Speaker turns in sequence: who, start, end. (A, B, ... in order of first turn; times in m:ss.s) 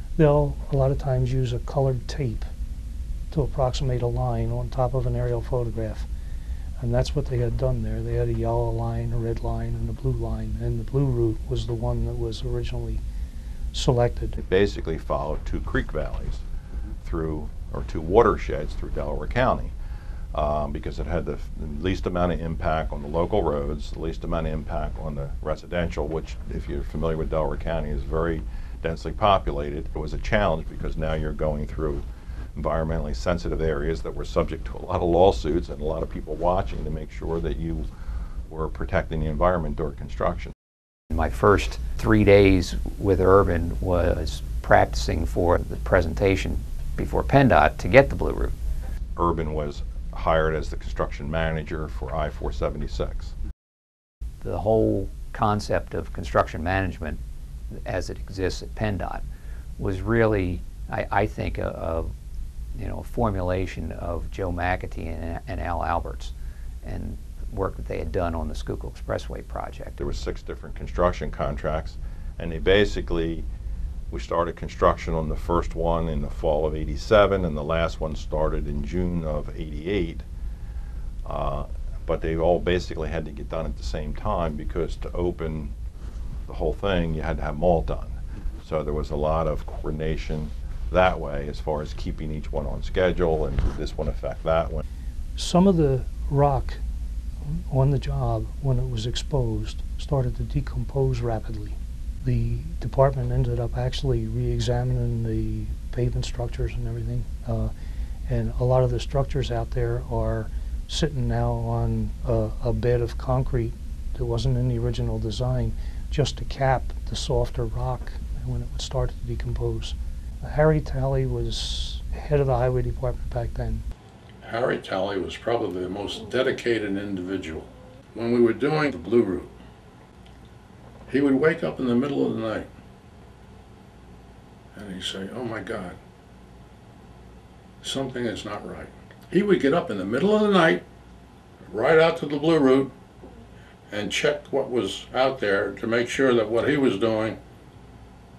0:00.2-0:02.5 A
0:03.3-0:06.1 A
0:06.8-0:13.0 A
0:13.7-0:14.4 A
0:14.4-0:16.4 B
0:17.0-0:19.7 B
0:20.3-0:37.9 B
0:38.5-0:40.5 B
0:41.1-0:48.5 C
0:49.2-0:53.3 B
0:54.4-0:57.2 C
0:57.9-0:59.2 C
0:59.8-1:02.1 C
1:02.8-1:06.3 C
1:06.8-1:10.0 C
1:10.0-1:13.5 B
1:14.1-1:20.2 B
1:21.3-1:25.7 B
1:26.5-1:34.8 B
1:35.4-1:36.8 A
1:37.5-1:47.7 A
1:48.3-2:03.8 A
2:04.4-2:09.5 D
2:11.1-2:12.7 D
2:14.8-2:16.0 D
2:17.8-2:20.8 D
2:21.7-2:22.9 D
2:23.9-2:27.4 D